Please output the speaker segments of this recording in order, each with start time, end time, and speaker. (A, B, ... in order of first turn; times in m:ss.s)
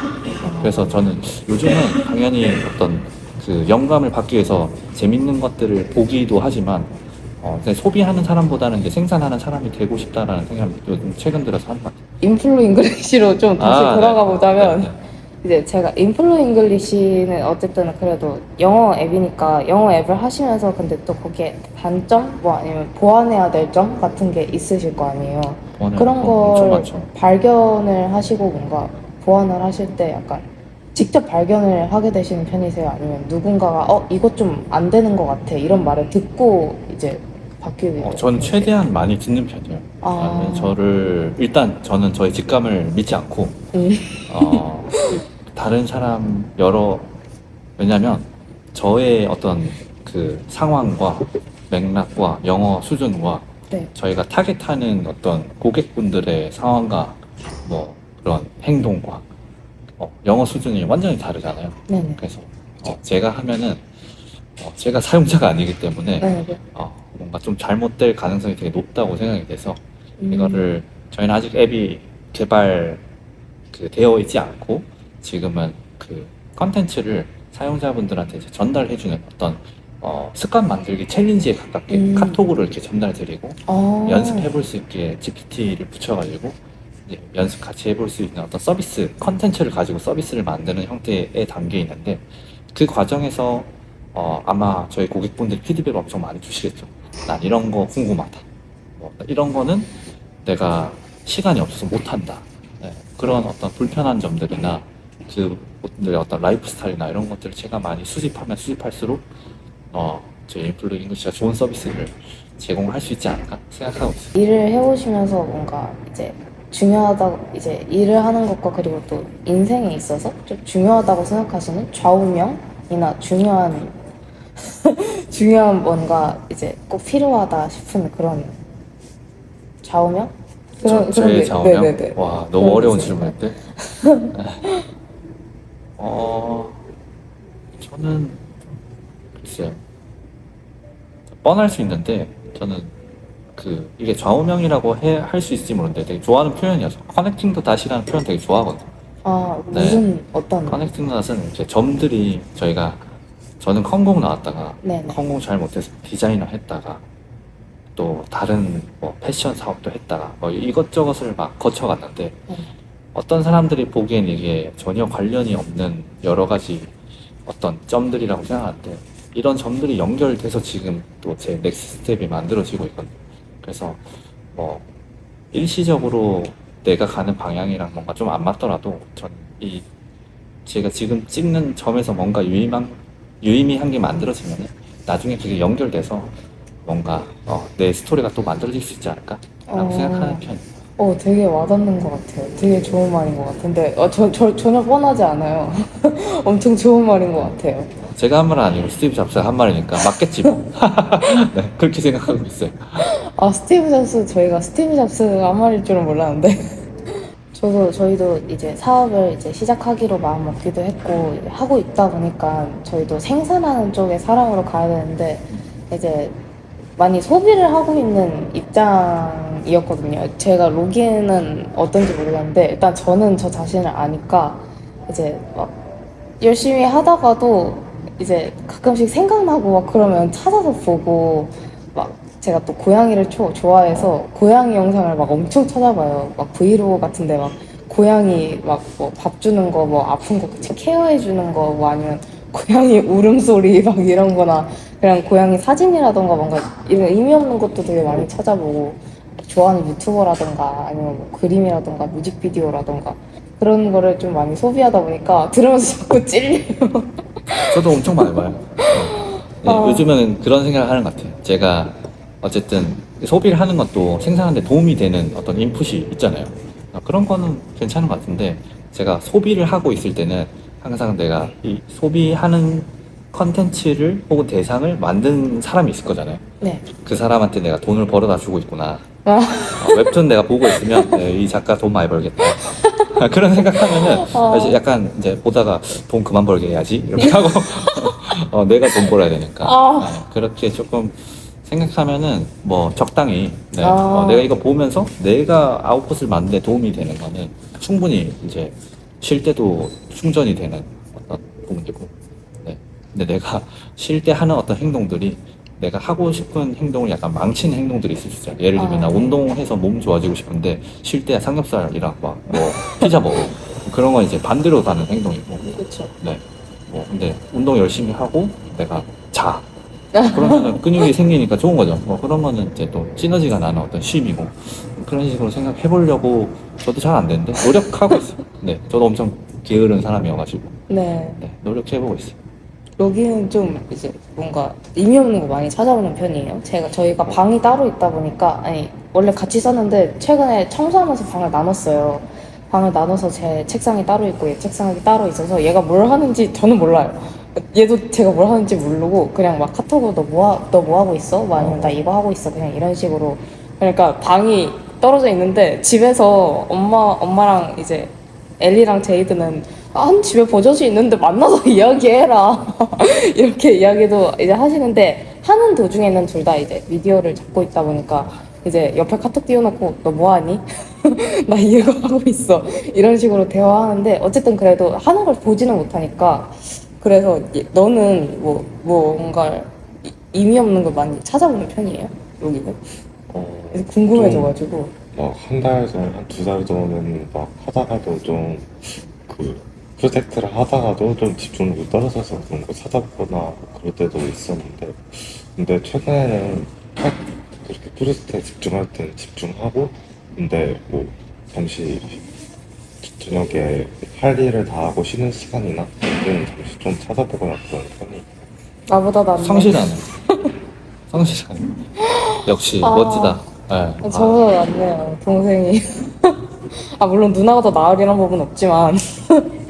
0:00.4-0:01.0 A
0:00.6-0:12.0 B
0:12.2-0:38.9 A
0:13.6-0:15.0 B
0:25.8-0:27.1 B
0:38.0-0:43.6 B
0:40.0-0:40.8 A
0:43.7-0:45.2 A
0:44.3-0:47.1 B
0:47.8-0:59.2 B
1:00.0-1:03.9 B
1:01.9-1:02.2 A
1:04.6-1:13.0 B
1:06.2-1:06.6 A
1:10.2-1:10.7 A
1:13.7-1:38.4 B
1:21.9-1:22.4 A
1:23.7-1:24.5 A
1:39.0-1:49.2 B
1:49.9-1:54.3 B
1:54.3-2:04.0 A
2:04.6-2:08.6 A
2:09.8-2:14.7 A
2:10.8-2:13.6 B
2:14.3-2:14.7 B
2:16.0-2:16.8 B
2:17.8-2:18.6 B
2:19.4-2:19.8 B
2:21.4-2:22.9 B
2:23.6-2:28.9 B
2:29.2-2:30.9 A
2:29.7-2:30.0 B
2:30.6-2:33.0 B
2:33.6-2:37.0 B
2:34.8-2:35.2 A
2:38.0-2:42.4 B
2:43.1-2:46.9 B
2:47.4-2:54.8 B
2:55.5-2:59.8 B
3:00.6-3:06.3 B
3:06.8-3:10.6 B
3:09.7-3:10.4 A
3:11.0-3:17.9 A
3:18.1-3:23.1 B
3:23.0-3:36.4 A
3:37.0-3:45.8 A
3:46.4-4:18.3 A
4:17.5-4:39.0 B
4:18.8-4:20.1 A
4:39.2-4:40.2 A
4:39.8-5:19.6 B
4:40.7-4:41.2 A
4:42.6-4:43.1 A
4:43.9-4:44.8 A
4:49.6-4:50.2 A
4:53.8-4:54.5 A
5:08.8-5:09.4 A
5:12.5-5:13.1 A
5:15.6-5:16.1 A
5:20.1-5:21.0 A
5:20.2-5:30.8 B
5:30.9-5:31.4 A
5:31.4-5:32.4 B
5:33.0-6:22.8 A
5:51.6-5:52.0 C
6:23.3-6:24.5 C
6:23.7-6:24.9 A
6:25.1-6:42.2 C
6:43.0-6:48.3 C
6:48.9-6:50.5 A
6:49.4-6:50.0 B
6:51.1-6:54.4 B
6:52.0-6:53.4 A
6:54.0-6:59.6 A